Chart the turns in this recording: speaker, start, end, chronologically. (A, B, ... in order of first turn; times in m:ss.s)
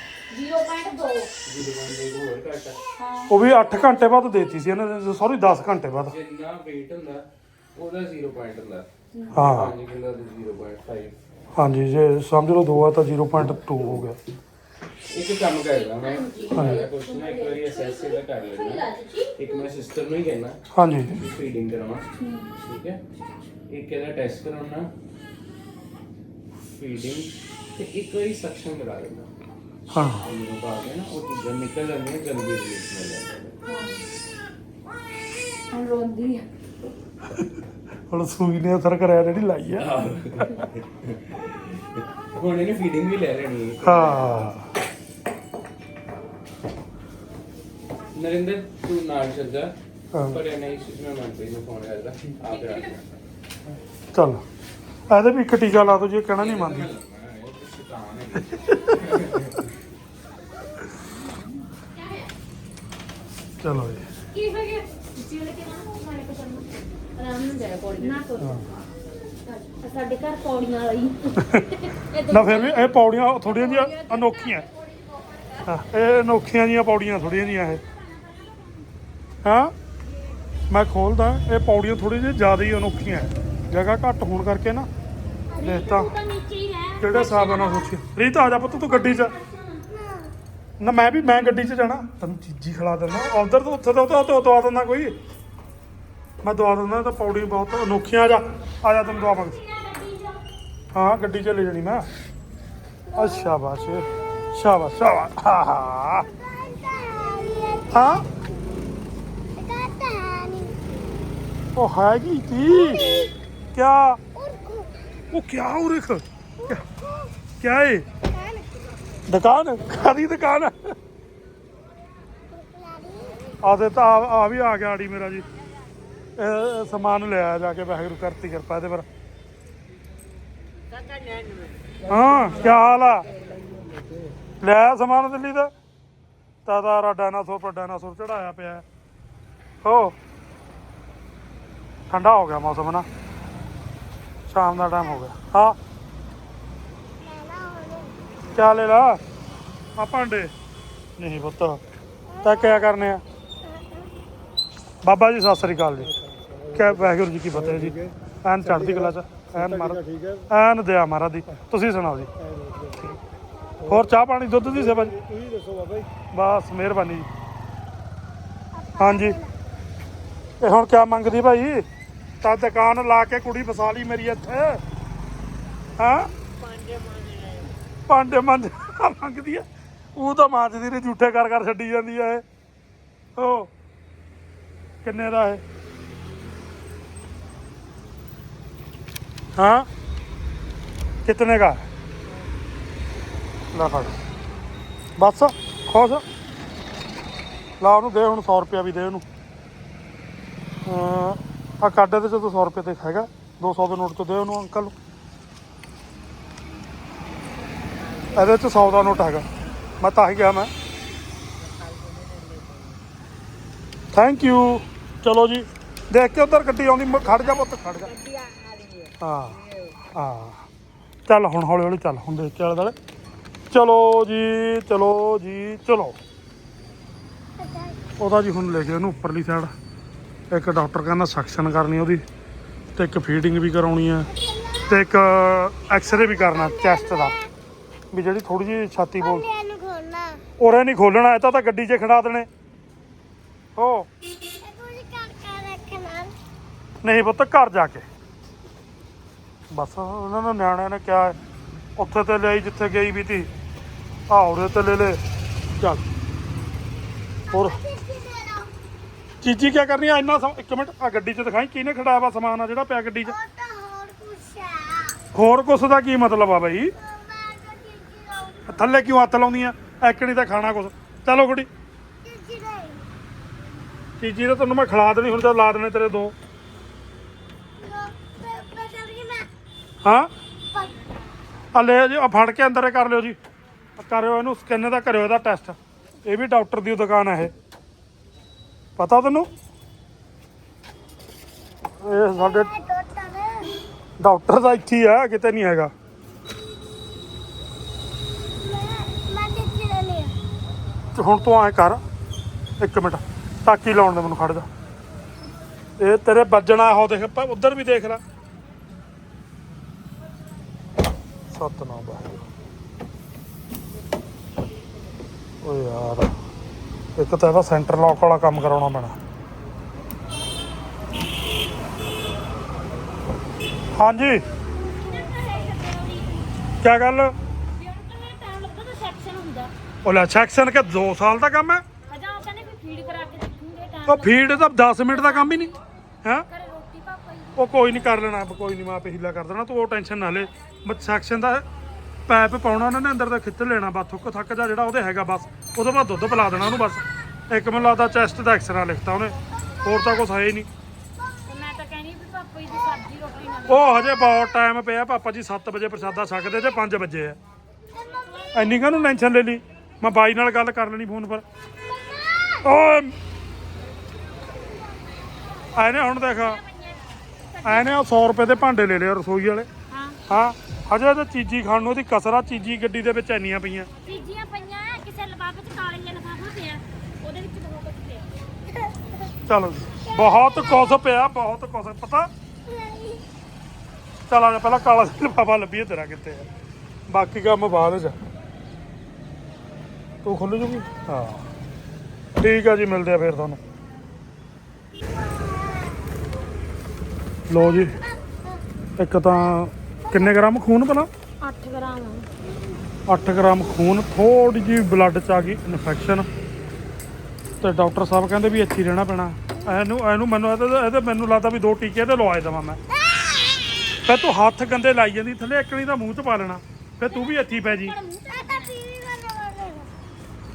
0:00.3-0:01.3 A
0:01.4-0:02.8 B
0:03.0-0:03.4 A
0:03.3-0:06.1 C
0:06.0-0:11.2 B
0:09.3-0:09.7 C
0:11.6-0:14.2 C
0:15.1-0:18.8 B
0:15.7-0:19.6 A
0:16.5-0:16.8 C
0:19.4-0:23.0 B
0:20.7-0:21.1 C
0:22.2-0:22.5 A
0:23.7-0:24.9 B
0:26.6-0:29.3 B
0:29.9-0:30.3 C
0:29.9-0:33.6 B
0:33.6-0:34.0 A
0:35.7-0:36.5 A
0:38.1-0:39.9 C
0:39.8-0:44.2 B
0:43.8-0:44.7 C
0:43.9-0:44.3 A
0:48.1-0:53.1 B
0:50.1-0:50.4 C
0:54.1-0:54.4 C
0:55.1-0:56.9 C
0:56.4-0:59.7 B
1:03.6-1:04.0 C
1:04.3-1:08.8 A
1:08.4-1:08.7 C
1:09.4-1:14.6 A
1:12.3-1:14.6 C
1:15.6-1:17.8 C
1:17.5-1:18.8 A
1:19.4-1:19.7 C
1:20.7-1:24.9 C
1:25.5-1:25.8 D
1:25.6-1:27.9 A
1:25.6-1:26.1 C
1:27.0-1:29.3 C
1:28.8-1:29.8 A
1:29.9-1:30.3 D
1:30.8-1:35.1 C
1:36.4-1:39.6 C
1:39.1-1:40.4 A
1:40.9-1:42.1 C
1:43.1-1:43.5 D
1:43.2-1:46.3 C
1:46.1-1:48.4 D
1:47.9-1:48.3 C
1:49.6-1:50.9 D
1:51.7-1:53.2 C
1:52.6-1:53.3 D
1:53.7-1:54.2 C
1:54.3-1:54.9 D
1:55.3-1:56.8 C
1:56.7-1:57.3 D
1:57.6-1:58.0 C
1:58.3-1:58.7 D
1:59.3-2:00.9 C
2:02.5-2:03.5 D
2:03.6-2:05.4 C
2:06.4-2:09.1 C
2:11.0-2:14.3 E
2:12.1-2:13.3 C
2:14.6-2:15.7 C
2:16.6-2:18.8 C
2:19.8-2:20.1 C
2:22.1-2:23.1 C
2:24.5-2:25.8 C
2:24.8-2:25.2 D
2:27.2-2:28.2 D
2:28.5-2:29.2 C
2:30.0-2:30.5 C
2:31.2-2:31.8 C
2:32.3-2:32.9 D
2:32.4-2:33.2 C
2:33.6-2:34.1 D
2:35.0-2:36.1 C
2:36.0-2:40.5 E
2:36.7-2:42.3 C
2:42.4-2:43.2 E
2:43.5-2:43.8 D
2:43.8-2:44.1 E
2:43.9-2:45.1 C
2:44.6-2:46.1 E
2:46.3-2:47.3 C
2:48.7-2:49.5 D
2:49.0-2:49.4 C
2:50.6-2:51.8 C
2:52.4-2:54.8 C
2:56.0-2:56.3 C
2:56.6-2:57.7 E
2:58.1-2:59.6 C
3:00.2-3:02.4 C
3:03.4-3:03.7 C
3:05.0-3:05.6 C
3:09.6-3:09.9 C
3:11.2-3:11.9 C
3:13.7-3:14.2 C
3:15.2-3:16.2 C
3:17.8-3:19.2 C
3:20.8-3:24.9 C
3:28.3-3:29.5 C
3:30.0-3:30.7 C
3:31.7-3:32.9 E
3:34.1-3:38.1 C
3:38.5-3:39.1 E
3:39.2-3:40.6 C
3:41.3-3:42.9 C
3:43.7-3:46.2 C
3:47.6-3:48.0 D
3:48.2-3:49.7 C
3:50.5-3:52.2 C
3:53.0-3:54.3 C
3:54.3-3:55.0 D
3:54.9-3:57.3 C
3:56.0-3:57.5 D
3:58.1-3:59.4 C
3:59.2-4:00.4 D
4:00.6-4:02.5 C
4:03.8-4:04.1 C
4:04.5-4:06.3 D
4:07.0-4:08.0 C
4:09.7-4:11.4 C
4:12.0-4:13.5 C
4:14.3-4:15.2 C
4:17.5-4:18.7 D
4:17.5-4:17.8 C
4:19.4-4:23.3 C
4:23.2-4:25.2 D
4:25.3-4:26.9 C
4:26.9-4:28.9 D
4:28.7-4:31.7 C
4:32.2-4:33.0 D
4:34.2-4:36.3 C
4:37.8-4:39.5 D
4:40.0-4:40.3 C
4:40.7-4:41.0 D
4:41.7-4:43.4 C
4:44.0-4:47.5 C
4:49.0-4:49.5 C
4:52.0-4:52.7 C
4:52.3-4:53.8 D
4:54.2-4:55.9 C
4:58.5-5:00.4 D
5:01.1-5:02.0 C
5:02.8-5:04.7 C
5:06.0-5:08.2 C
5:11.5-5:12.5 C
5:15.6-5:16.3 C
5:17.2-5:19.2 C
5:23.9-5:24.4 C
5:24.9-5:26.5 A
5:26.8-5:27.3 C
5:27.8-5:29.7 A
5:30.0-5:31.8 C
5:32.1-5:35.7 A
5:34.1-5:36.4 C
5:36.5-5:37.6 A
5:37.6-5:41.6 C
5:42.3-5:50.7 C
5:51.4-5:54.0 A
5:53.7-5:57.4 C
5:58.0-5:58.8 D
5:58.1-5:58.9 A
5:58.5-6:01.4 C
6:01.8-6:02.7 D
6:02.6-6:03.1 C
6:04.3-6:05.7 D
6:05.7-6:06.6 C
6:06.3-6:08.0 A
6:07.6-6:09.7 C
6:09.9-6:10.2 A
6:10.3-6:13.9 C
6:14.0-6:18.3 A
6:18.7-6:19.3 D
6:19.5-6:22.3 C
6:20.0-6:20.4 D
6:22.6-6:23.2 D
6:24.3-6:26.5 C
6:27.1-6:28.2 C
6:30.2-6:31.5 C
6:32.4-6:33.6 C
6:35.0-6:36.3 D
6:37.5-6:38.0 C
6:38.0-6:38.6 D
6:39.0-6:41.1 C
6:40.1-6:40.4 D
6:41.4-6:42.2 A
6:43.1-6:46.3 C
6:47.6-6:52.8 C
6:53.2-6:53.4 D
6:54.0-6:58.0 C
6:57.1-6:59.9 D
6:58.2-6:58.7 A